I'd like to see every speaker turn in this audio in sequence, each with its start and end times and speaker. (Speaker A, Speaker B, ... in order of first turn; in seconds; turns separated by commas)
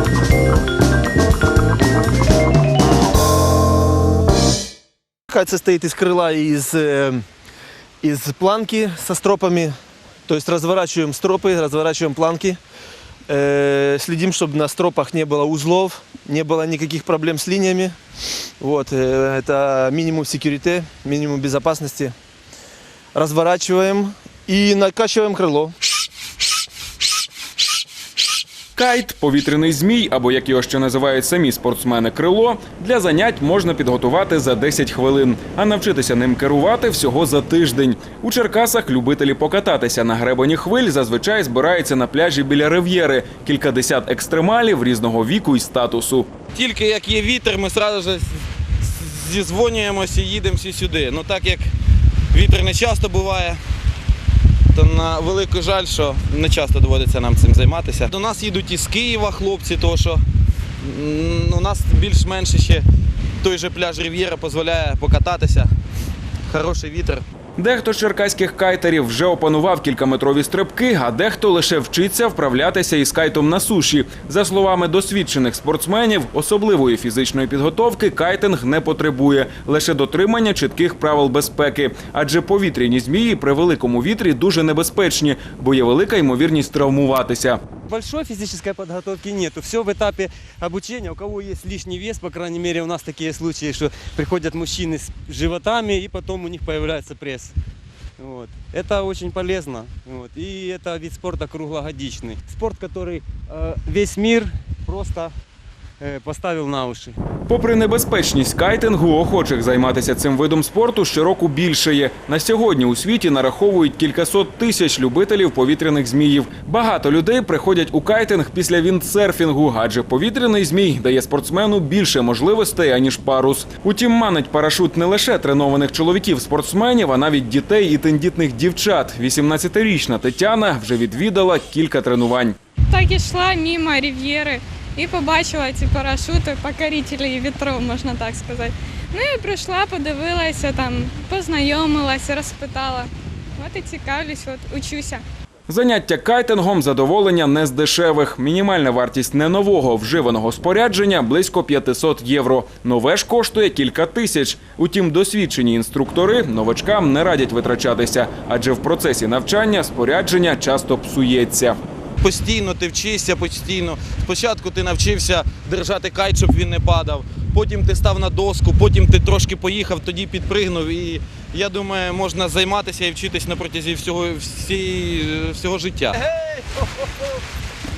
Speaker A: 5.3-7.2, Speaker A: 8.0-9.7, Speaker A: 10.3-12.6, Speaker A: 13.3-17.9, Speaker A: 18.6-22.1, Speaker A: 23.1-25.7, Speaker B: 28.8-46.3, Speaker C: 46.5-51.7, Speaker C: 52.3-53.6, Speaker C: 54.7-60.2, Speaker C: 60.8-62.9, Speaker C: 63.4-65.7, Speaker C: 66.5-67.2, Speaker B: 67.6-87.6, Speaker D: 87.9-97.5, Speaker D: 98.2-105.3, Speaker D: 106.0-107.2, Speaker B: 107.5-132.6, Speaker E: 132.9-145.2, Speaker B: 145.7-161.8, Speaker C: 162.2-176.6